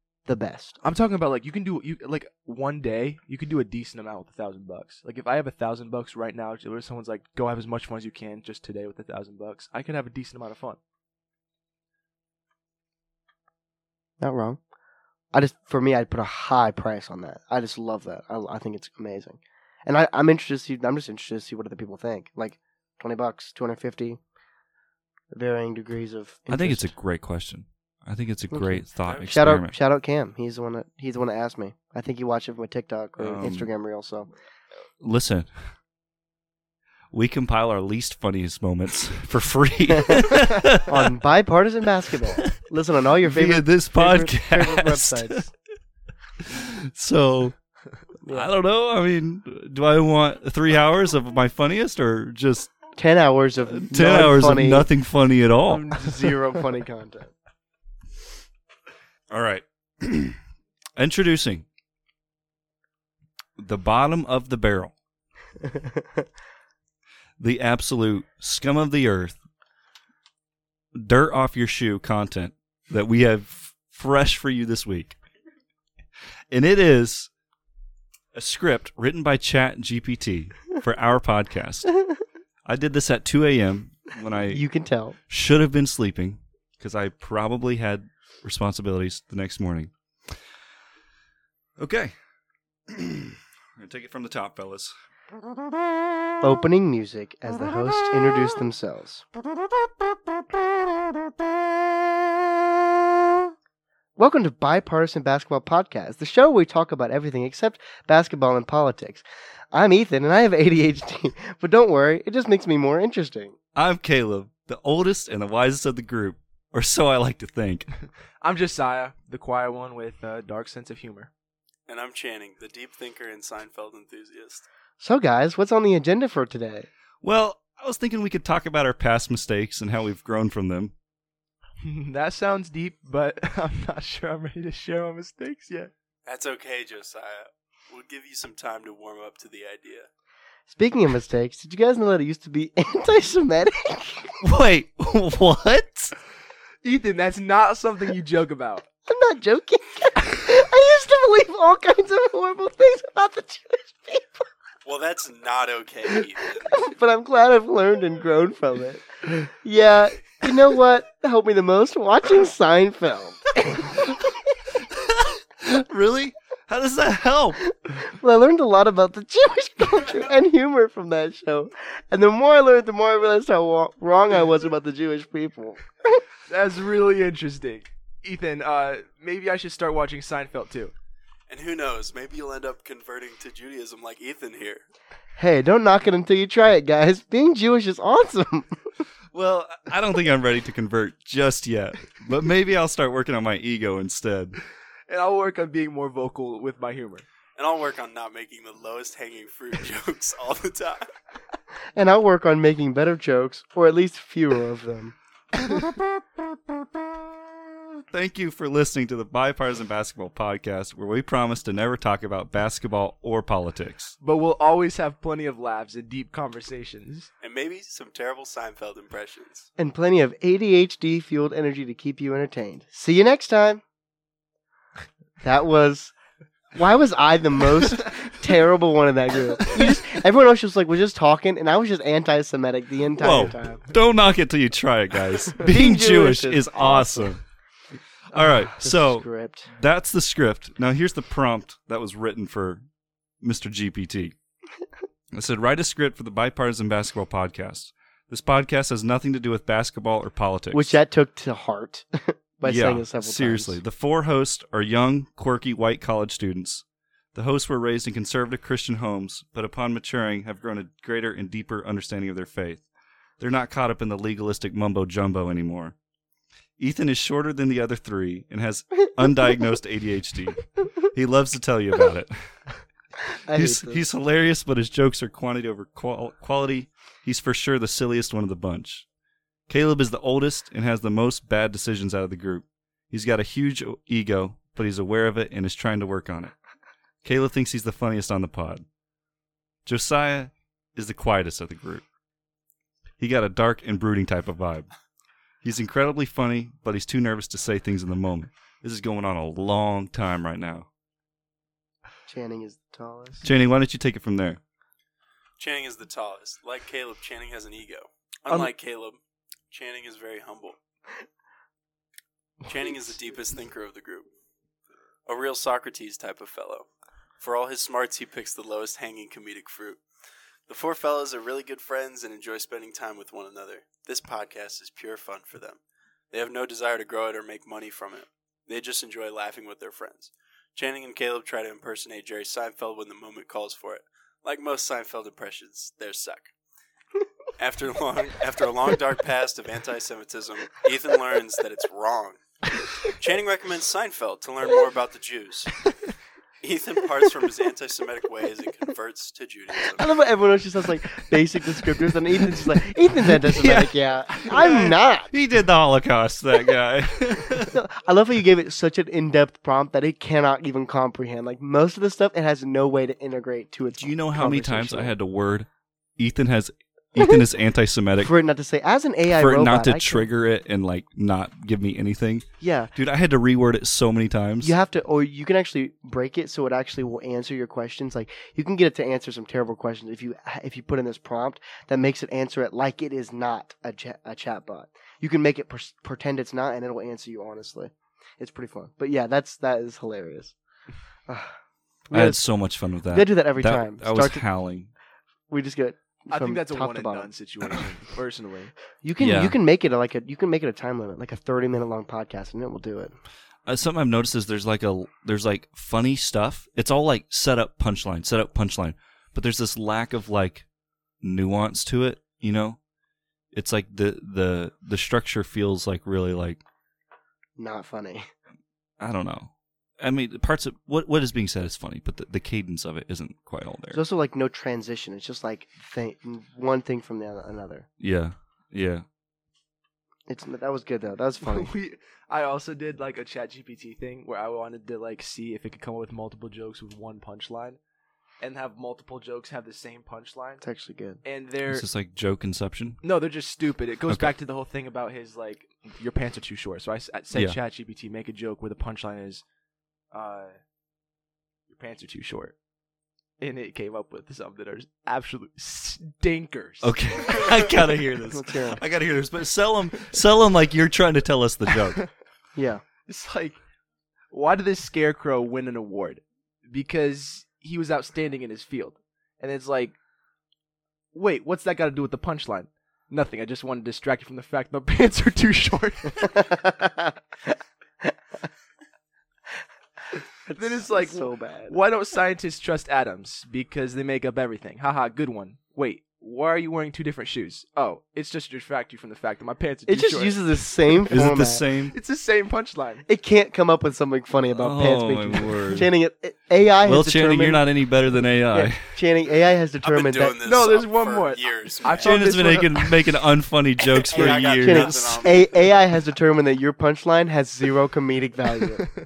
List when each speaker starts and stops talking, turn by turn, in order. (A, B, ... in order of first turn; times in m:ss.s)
0:00.2-0:00.8 A
0:00.8-0:10.8 B
0:14.2-0:14.6 A
0:15.3-0:24.2 A
0:25.3-0:26.9 A
0:26.5-0:29.8 C
0:28.5-0:34.3 A
0:33.2-0:33.7 C
0:35.0-0:35.5 C
0:37.1-0:41.1 C
0:39.9-0:45.5 A
0:43.2-0:45.4 C
0:46.4-0:47.5 C
0:48.2-0:48.5 A
0:48.3-0:52.7 C
0:53.0-0:54.9 A
0:53.7-0:56.1 C
0:55.7-0:57.3 A
0:59.3-1:00.4 C
1:01.0-1:01.6 C
1:03.6-1:04.9 C
1:05.8-1:06.2 A
1:07.4-1:09.4 C
1:10.9-1:15.2 C
1:16.5-1:17.3 C
1:18.3-1:21.9 C
1:22.6-1:24.6 C
1:24.5-1:25.2 A
1:25.3-1:30.3 C
1:31.8-1:32.1 C
1:32.9-1:34.9 C
1:36.4-1:39.3 A
1:44.2-1:53.6 A
1:53.8-1:57.9 C
1:58.4-2:01.3 B
2:01.9-2:04.6 D
2:05.0-2:06.9 A
2:07.2-2:10.9 C
2:11.8-2:15.9 B
2:16.2-2:20.1 D
2:20.7-2:24.3 A
2:24.4-2:26.1 C
2:26.8-2:28.8 B
2:29.0-2:34.4 A
2:34.8-2:36.8 D
2:36.7-2:44.2 A
2:44.8-2:47.6 C
2:47.8-2:56.2 A
2:56.5-3:00.9 B
3:01.5-3:04.8 D
3:05.4-3:08.7 A
3:09.3-3:14.6 C
3:15.1-3:17.2 B
3:17.6-3:21.1 D
3:21.9-3:25.1 A
3:28.1-3:34.1 C
3:34.2-3:37.3 B
3:37.4-3:39.7 D
3:39.8-3:43.8 A
3:45.4-3:46.1 A
3:46.8-3:53.9 A
3:53.2-3:57.4 C
3:55.6-3:57.3 A
3:58.3-4:02.8 C
3:58.4-3:59.7 A
4:03.4-4:04.3 C
4:05.3-4:11.0 C
4:10.7-4:13.8 A
4:12.6-4:22.8 C
4:23.4-4:25.9 C
4:26.8-4:32.3 C
4:33.5-4:34.0 A
4:33.5-4:39.0 C
4:39.7-4:46.5 C
4:47.2-4:48.8 C
4:49.8-4:52.0 C
4:53.2-4:54.9 C
4:55.6-5:00.9 C
5:02.3-5:03.4 A
5:03.4-5:04.6 C
5:05.6-5:09.2 D
5:09.7-5:10.8 D
5:12.6-5:14.3 D
5:15.3-5:16.9 D
5:17.4-5:20.0 D
5:20.7-5:25.8 D
5:26.3-5:36.5 D
5:37.6-5:42.4 D
5:43.0-5:45.8 D
5:46.6-5:50.1 D
5:50.0-5:55.3 A
5:53.4-5:57.8 C
5:57.5-6:05.1 A
6:04.0-6:08.3 C
6:08.2-6:10.3 A
6:09.3-6:14.7 C
6:12.6-6:12.9 A
6:14.6-6:30.5 A
6:31.3-6:31.6 A
6:32.1-6:32.4 A
6:32.1-6:34.9 C
6:33.1-6:34.4 A
6:35.5-6:37.3 A
6:36.3-6:38.7 B
6:39.0-6:43.1 A
6:39.2-6:39.6 C
6:43.6-6:50.6 C
6:51.2-6:52.8 C
6:53.5-6:56.6 C
6:57.6-6:58.3 A
6:59.0-7:04.0 C
7:03.9-7:07.9 A
7:08.0-7:09.0 C
7:10.3-7:11.7 A
7:11.4-7:17.8 B
7:18.4-7:20.6 B
7:20.6-7:21.2 A
7:21.2-7:21.9 B
7:21.7-7:23.0 C
7:23.0-7:29.4 B
7:30.1-7:30.5 B
7:31.7-7:32.6 B
7:33.4-7:37.6 B
7:36.8-7:42.0 C
7:38.3-7:38.8 A
7:42.6-7:42.8 A
7:43.1-7:43.6 B
7:44.3-7:50.0 B
7:51.1-7:56.4 B
7:56.4-7:57.2 A
8:00.4-8:01.8 A
8:00.5-8:11.2 B
8:09.9-8:11.6 A
8:11.1-8:11.9 C
8:11.9-8:13.0 B
8:13.1-8:17.6 A
8:14.5-8:15.9 C
8:16.8-8:18.9 C
8:18.5-8:20.4 A
8:19.8-8:22.2 D
8:20.4-8:22.9 B
8:22.0-8:25.3 C
8:24.0-8:25.8 D
8:24.1-8:28.9 A